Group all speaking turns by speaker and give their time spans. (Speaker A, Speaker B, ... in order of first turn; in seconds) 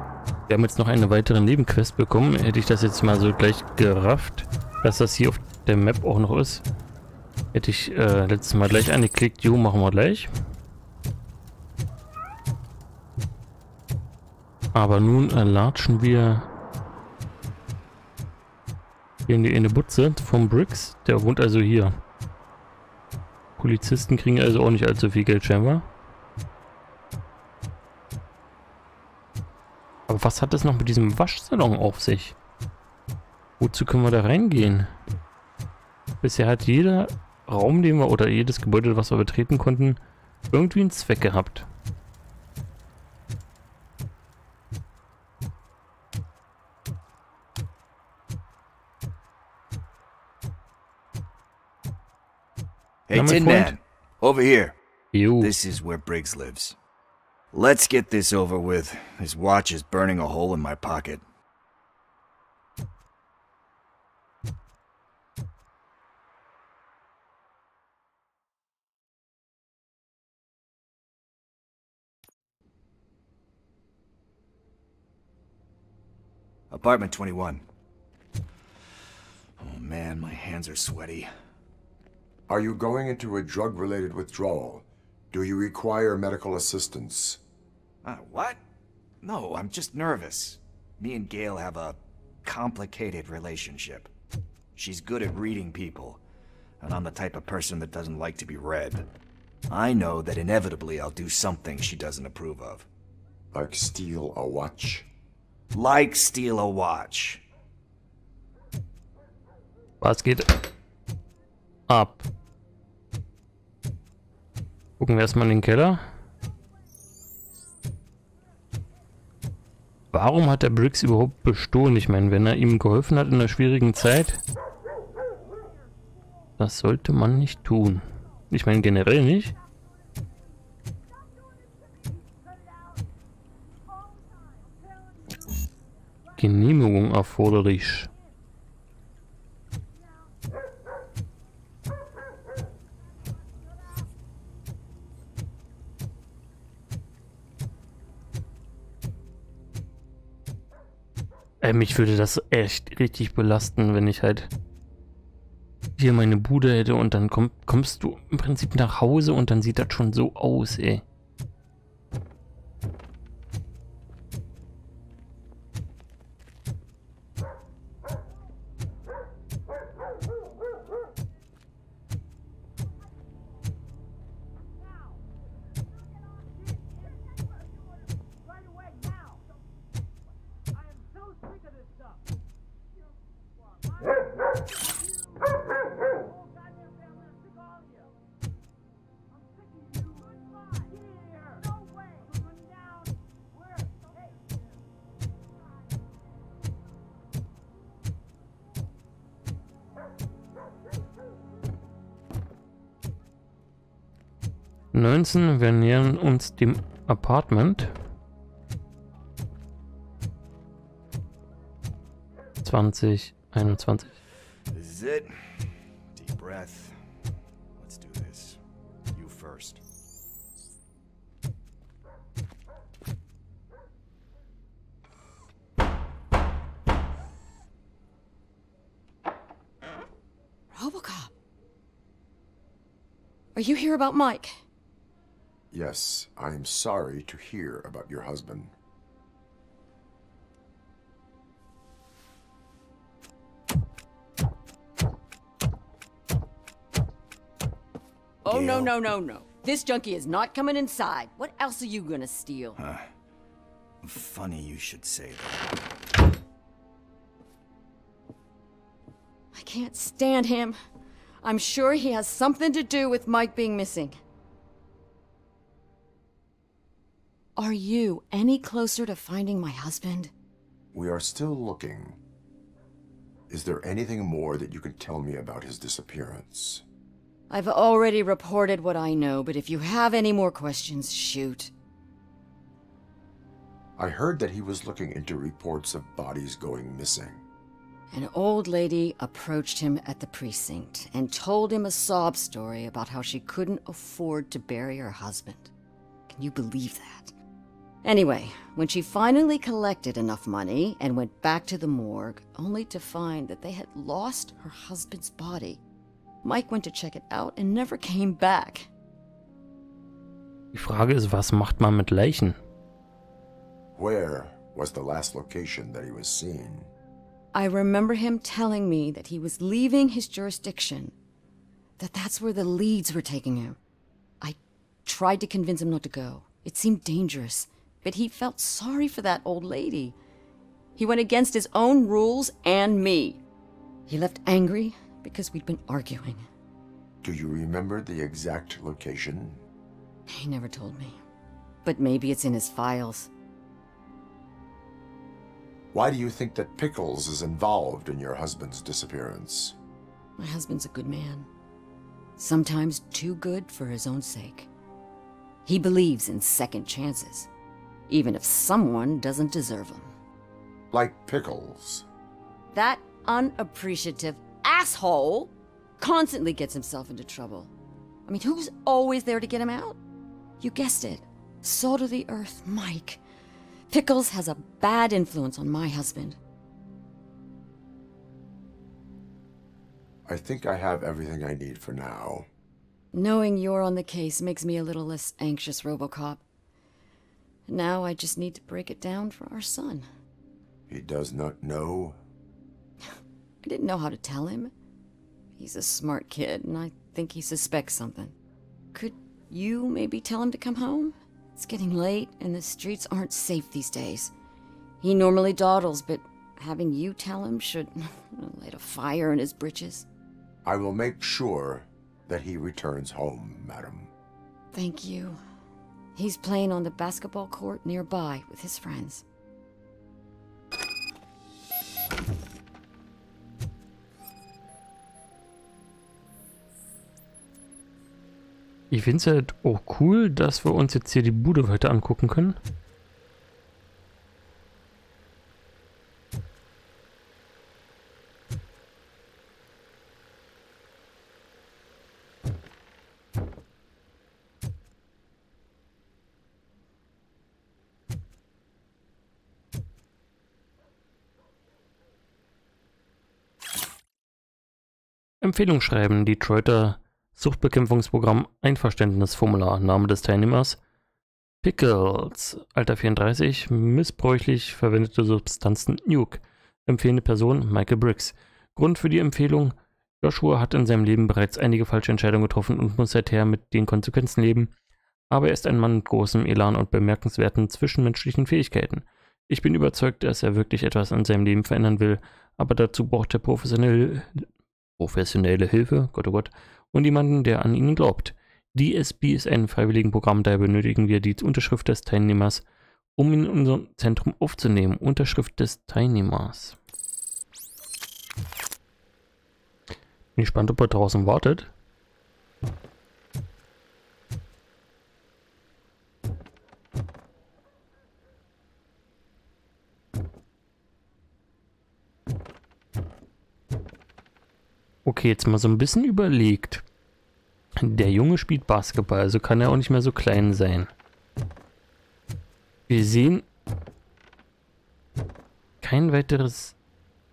Speaker A: 0.5-6.6, 7.5-10.3, 14.8-16.5, 19.3-21.9, 23.6-25.9, 30.1-32.4, 33.6-34.9, 36.2-40.0, 40.5-41.7, 53.1-53.8, 55.1-55.5, 110.0-110.5, 111.9-112.3, 115.0-116.0, 120.1-124.4, 126.6-129.5, 136.4-138.1, 151.6-154.5, 156.0-161.0, 204.9-207.9, 212.6-214.2, 310.7-312.6, 428.9-432.6, 455.4-460.8, 461.6-474.7, 475.3-484.5, 485.0-492.6, 493.2-496.8, 500.4-501.7, 515.1-516.8, 517.8-520.9, 522.9-523.5, 525.8-526.8
Speaker B: 53.1-54.8, 55.4-56.8, 57.5-61.2, 76.7-77.6, 79.6-81.3, 88.0-88.6, 89.2-94.1, 94.8-96.2, 96.8-99.1, 99.7-102.9, 105.7-107.4, 214.7-215.6, 216.1-216.9, 217.8-218.6, 219.1-219.8, 248.5-248.9, 252.8-253.1, 254.0-255.6
Speaker C: 82.5-87.4, 103.5-105.1, 235.7-238.7, 270.9-272.2, 273.5-276.8, 284.0-287.4, 314.0-316.9, 337.2-339.6, 345.9-349.8, 360.9-362.1, 380.3-382.5, 390.9-392.2, 410.6-414.1
Speaker D: 230.7-231.3, 233.6-234.6, 248.4-252.8, 259.5-260.8, 261.4-264.2, 267.6-270.3, 277.5-281.7, 288.1-295.7, 296.3-297.3, 298.0-305.8, 306.4-308.9, 317.5-321.1, 322.0-323.8, 324.4-330.2, 331.0-333.4, 334.1-336.5, 340.3-341.2, 341.8-343.3, 350.4-351.5, 352.4-354.7, 355.7-357.5, 358.1-360.1, 362.7-367.7, 368.3-370.0, 370.6-373.2, 373.9-376.4, 383.1-386.4, 387.7-390.1, 393.6-394.7, 395.6-398.4, 398.9-404.3, 405.0-410.1, 414.7-415.4, 416.2-419.2